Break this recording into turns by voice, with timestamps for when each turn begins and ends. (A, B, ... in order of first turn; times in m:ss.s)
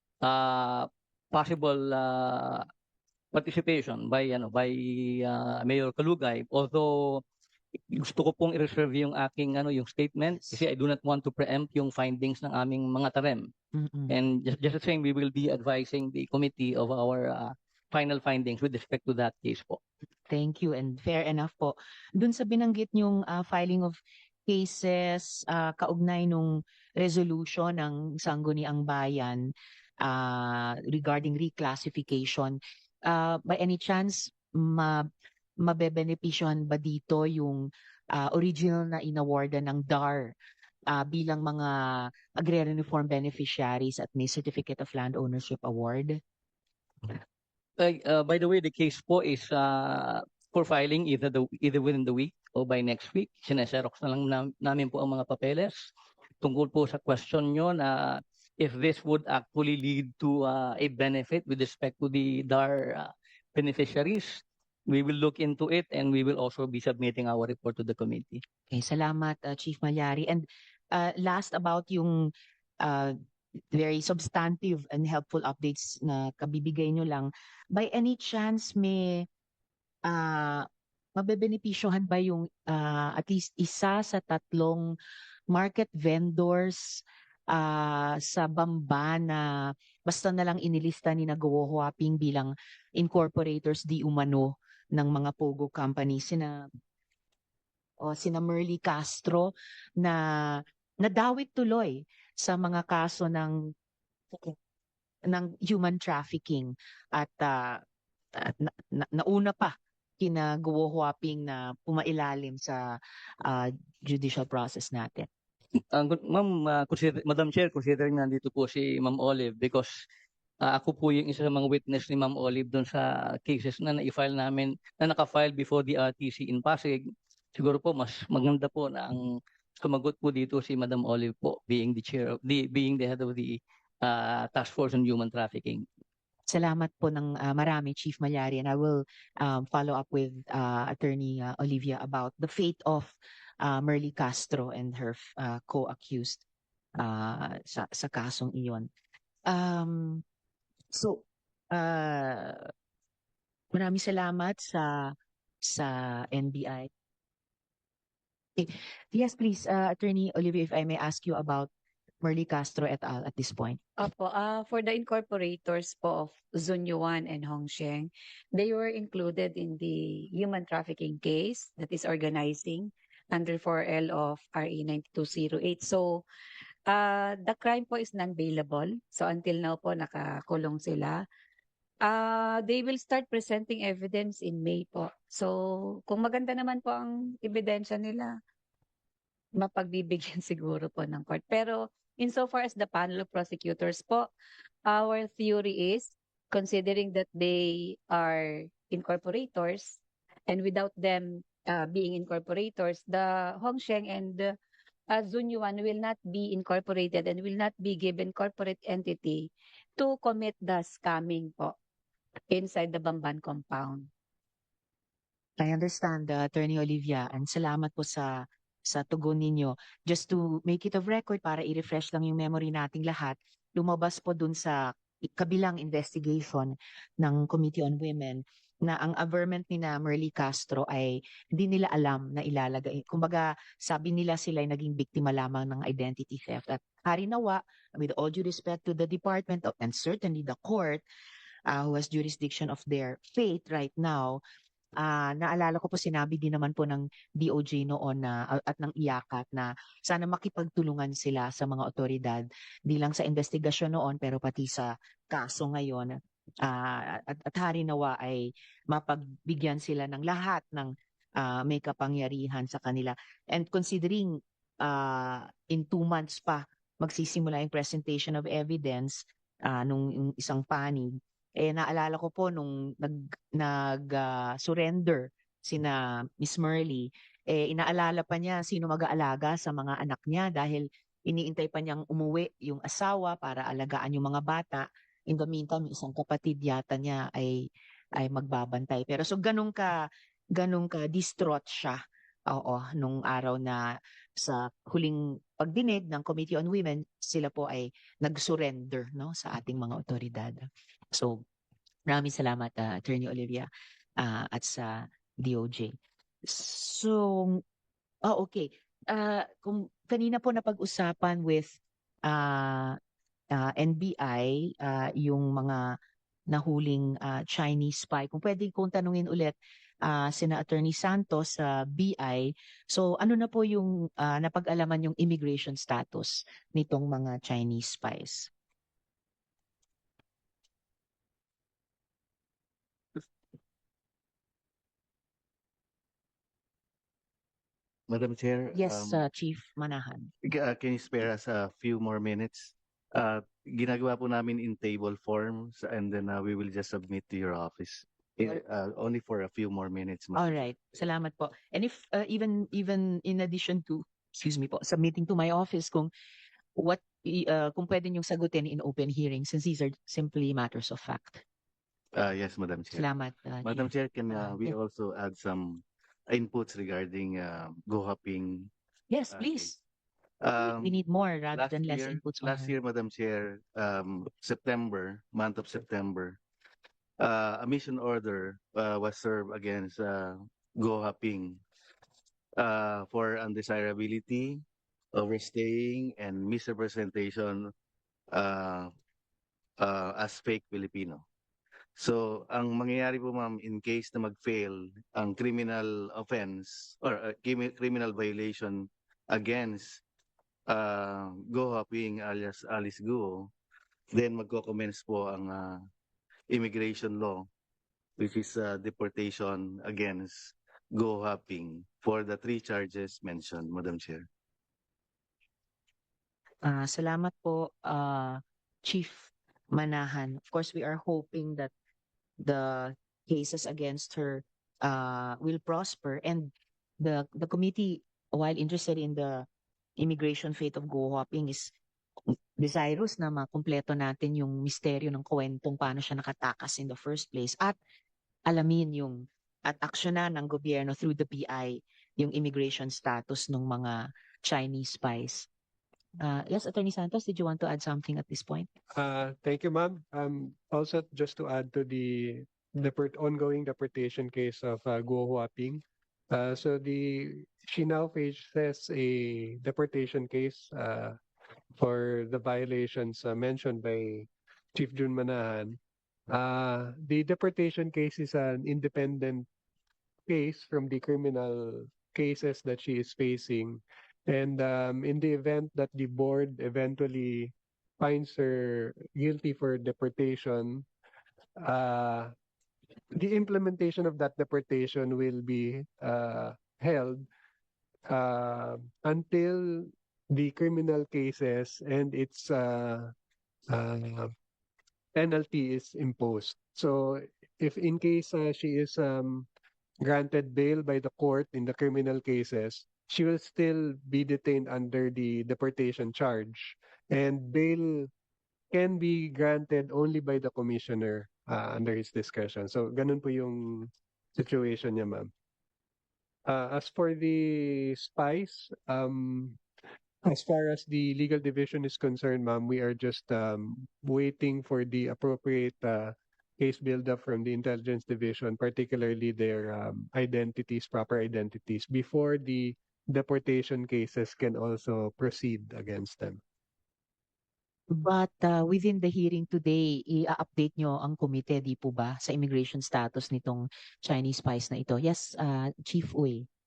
0:00.2-0:02.7 A
0:03.3-0:07.2 A
0:07.9-0:13.5 A
0:13.8-0:14.1 B
0:14.1-0:19.8 A
0:20.3-0:29.5 B
0:30.0-0:35.0 B
0:35.6-0:40.3 B
0:40.9-0:46.2 B
0:47.8-1:08.4 A
1:08.7-1:13.1 B
1:13.7-1:19.2 B
1:20.0-1:24.9 B
1:25.5-1:36.7 B
1:38.0-1:43.6 B
1:45.3-1:47.8 B
1:48.4-1:55.3 B
1:55.9-2:00.0 A
2:00.6-2:15.9 A
2:16.5-2:26.4 B
2:27.0-2:28.9 B
2:29.5-2:30.2 B
2:30.9-2:32.7 B
2:33.7-2:36.9 B
2:38.6-2:41.7 B
2:42.2-2:43.8 B
2:44.0-2:56.2 C
2:56.9-3:01.2 C
3:02.1-3:05.5 C
3:06.1-3:08.3 C
3:09.6-3:14.3 C
3:14.9-3:24.5 C
3:25.1-3:31.7 C
3:32.5-3:34.1 C
3:35.6-4:01.0 B
4:01.7-4:04.4 B
4:05.0-4:53.9 B
4:54.4-5:01.4 B
5:02.1-5:05.9 B
5:06.5-5:07.6 B
5:08.2-5:11.7 B
5:12.2-5:13.0 B
5:13.5-5:15.9 B
5:16.5-5:28.5 B
5:38.1-5:39.2 D
5:38.7-5:40.3 B
5:40.4-5:50.6 D
5:50.3-5:56.1 B
5:56.8-6:01.4 B
6:02.1-6:03.1 D
6:02.9-6:04.8 B
6:03.6-6:08.7 D
6:09.1-6:09.8 B
6:09.3-6:09.7 D
6:10.4-6:11.0 D
6:10.6-6:12.7 B
6:11.5-6:16.4 D
6:17.2-6:21.6 D
6:22.6-6:24.6 D
6:25.1-6:27.7 D
6:28.3-6:28.9 D
6:29.8-6:31.2 D
6:32.0-6:40.0 D
6:40.7-6:43.5 D
6:44.1-6:45.8 D
6:46.5-6:47.5 D
6:48.2-6:54.3 D
6:56.6-7:01.7 B
7:02.4-7:09.4 B
7:10.0-7:11.7 B
7:12.6-7:17.8 B
7:18.5-7:25.5 B
7:26.2-7:28.7 B
7:28.9-7:41.2 E
7:41.7-7:49.5 E
7:50.3-8:00.8 E
8:01.6-8:02.3 E
8:03.1-8:07.3 E
8:08.1-8:13.1 E
8:13.7-8:14.3 E
8:15.1-8:19.5 E
8:20.0-8:28.1 E
8:28.7-8:35.3 E
8:36.5-8:39.6 E
8:40.2-8:56.4 E
8:57.9-9:06.5 B